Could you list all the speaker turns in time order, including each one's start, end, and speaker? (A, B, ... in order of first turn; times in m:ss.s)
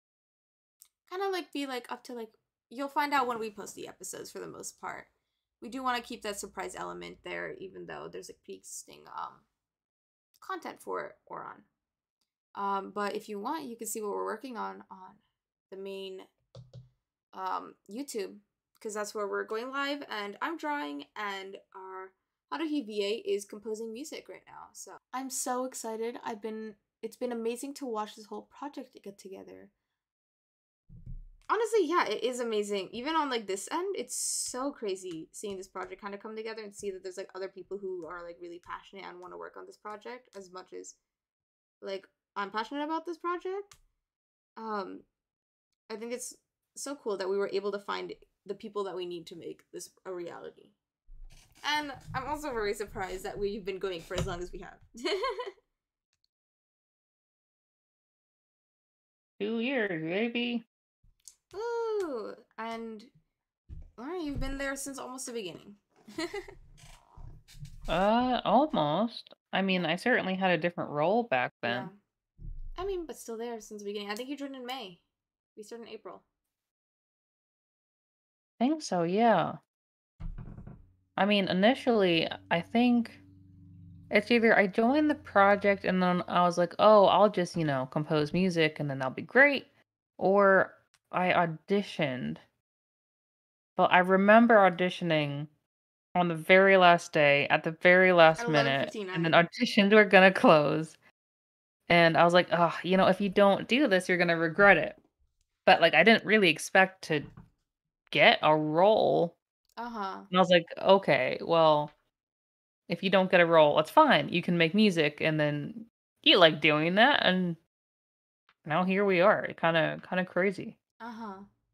0:01.1-0:09.4 A
0:10.4-0:11.7 A
0:12.6-0:16.3 A
0:17.3-0:29.7 A
0:31.5-0:41.0 A
0:41.8-0:43.7 A
0:44.6-0:45.1 A
0:45.9-0:50.8 A
0:51.6-0:55.5 A
0:59.4-1:00.6 B
1:01.5-1:03.1 A
1:04.0-1:06.4 A
1:07.9-1:11.9 B
1:11.6-1:12.0 A
1:12.8-1:15.0 A
1:15.6-1:16.2 A
1:18.6-1:19.6 B
1:21.2-1:23.2 B
1:24.1-1:32.4 B
1:33.8-1:35.5 B
1:36.2-1:41.0 B
1:38.4-1:39.4 A
1:41.9-1:45.0 B
1:45.7-1:47.3 B
1:48.1-1:49.4 B
1:49.8-1:50.3 A
1:50.3-1:51.9 B
1:52.9-1:57.6 B
1:58.7-2:00.8 B
2:01.0-2:01.5 A